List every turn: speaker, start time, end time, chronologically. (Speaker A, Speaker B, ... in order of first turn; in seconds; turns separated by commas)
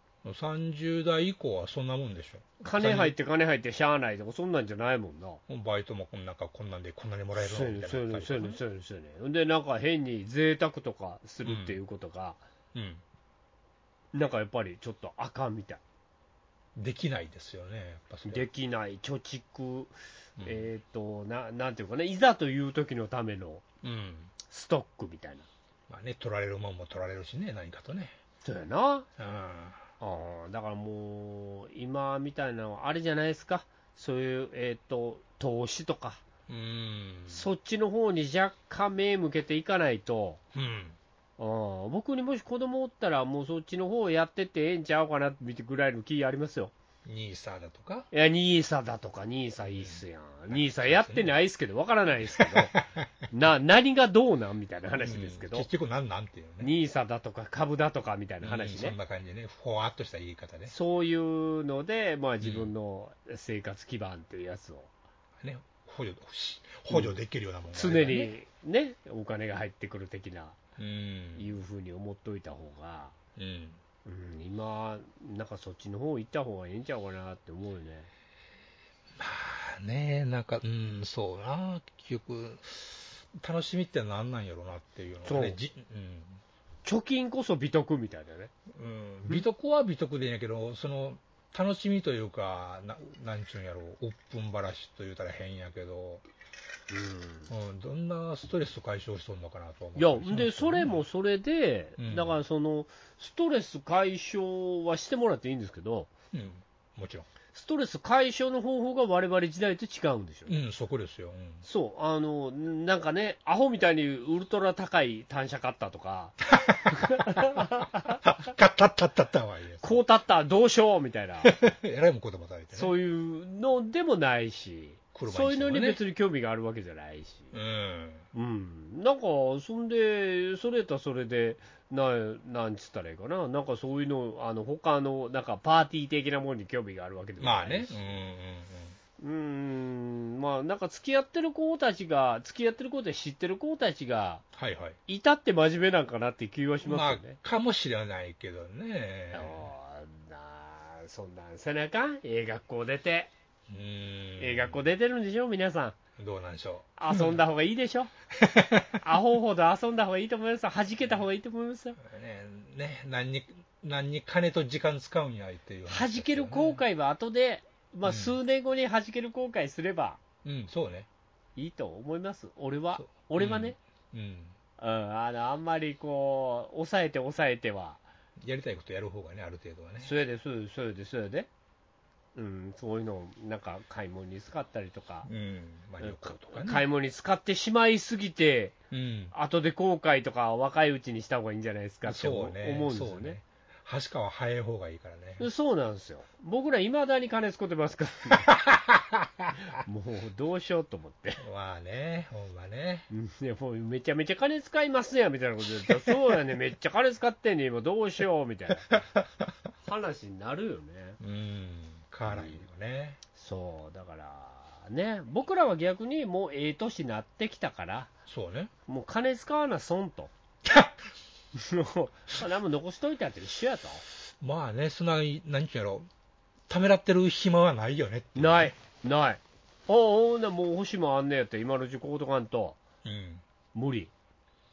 Speaker A: 0.2-3.1, Speaker B: 2.6-5.4, Speaker A: 5.5-8.6, Speaker B: 7.4-12.4, Speaker A: 11.4-11.8, Speaker A: 12.7-13.0, Speaker B: 14.1-15.8, Speaker A: 16.8-18.5, Speaker B: 18.2-23.6, Speaker A: 20.4-20.6, Speaker A: 23.8-24.3, Speaker B: 24.4-25.4, Speaker A: 25.9-28.1, Speaker B: 28.4-29.1, Speaker A: 29.2-29.8, Speaker B: 30.0-36.2, Speaker A: 36.5-37.5, Speaker B: 37.3-40.4, Speaker A: 40.5-41.0, Speaker B: 41.4-46.7, Speaker A: 47.0-48.1, Speaker B: 48.1-52.8, Speaker A: 49.6-51.3, Speaker A: 52.3-53.1, Speaker B: 53.3-55.7, Speaker A: 55.0-56.7, Speaker B: 56.6-59.0, Speaker A: 58.4-60.7, Speaker B: 60.7-64.9, Speaker A: 62.4-62.7, Speaker A: 65.4-68.3, Speaker B: 66.9-67.2, Speaker B: 67.7-70.6, Speaker A: 70.8-71.5, Speaker B: 71.3-73.1, Speaker A: 73.3-73.8, Speaker B: 74.0-78.1, Speaker A: 79.2-86.4, Speaker B: 85.2-85.6, Speaker B: 86.8-88.5, Speaker A: 88.7-96.2, Speaker B: 96.9-97.5, Speaker A: 97.5-101.0, Speaker B: 100.0-106.1, Speaker A: 102.0-102.4, Speaker A: 106.3-107.3, Speaker B: 107.5-110.6, Speaker A: 110.5-111.6, Speaker B: 111.6-118.2, Speaker A: 116.6-120.0, Speaker B: 119.8-121.6, Speaker A: 121.4-122.9, Speaker B: 122.7-127.5, Speaker A: 125.1-126.0, Speaker A: 127.5-128.2, Speaker B: 128.3-138.2, Speaker A: 137.4-139.0, Speaker B: 139.2-144.4, Speaker A: 144.6-145.0, Speaker B: 145.1-147.4, Speaker A: 146.8-149.7, Speaker B: 149.3-153.3, Speaker A: 153.7-154.8, Speaker B: 154.4-155.9, Speaker A: 156.2-157.4, Speaker B: 157.0-158.1, Speaker A: 158.3-159.0, Speaker B: 159.0-162.0, Speaker A: 162.0-166.8, Speaker B: 165.9-170.2, Speaker A: 168.1-168.4, Speaker A: 170.4-171.1, Speaker B: 171.6-173.8, Speaker A: 172.9-174.6, Speaker B: 174.8-178.0, Speaker A: 178.4-180.1, Speaker B: 180.0-181.5, Speaker B: 182.3-185.3, Speaker A: 185.2-186.8, Speaker B: 186.0-188.8, Speaker A: 188.9-189.3, Speaker B: 189.3-193.4, Speaker A: 192.1-195.5, Speaker B: 195.4-198.6, Speaker A: 198.5-199.6, Speaker B: 199.8-201.4, Speaker A: 201.4-203.1, Speaker B: 203.1-209.0, Speaker B: 209.8-211.2, Speaker A: 211.2-213.2, Speaker B: 212.2-212.6, Speaker B: 213.3-218.1, Speaker A: 218.3-218.7, Speaker B: 218.9-220.3, Speaker A: 220.6-220.9, Speaker B: 221.6-224.0, Speaker A: 224.4-226.1, Speaker A: 226.7-228.7, Speaker B: 228.3-232.8, Speaker A: 233.0-233.4, Speaker B: 233.7-234.1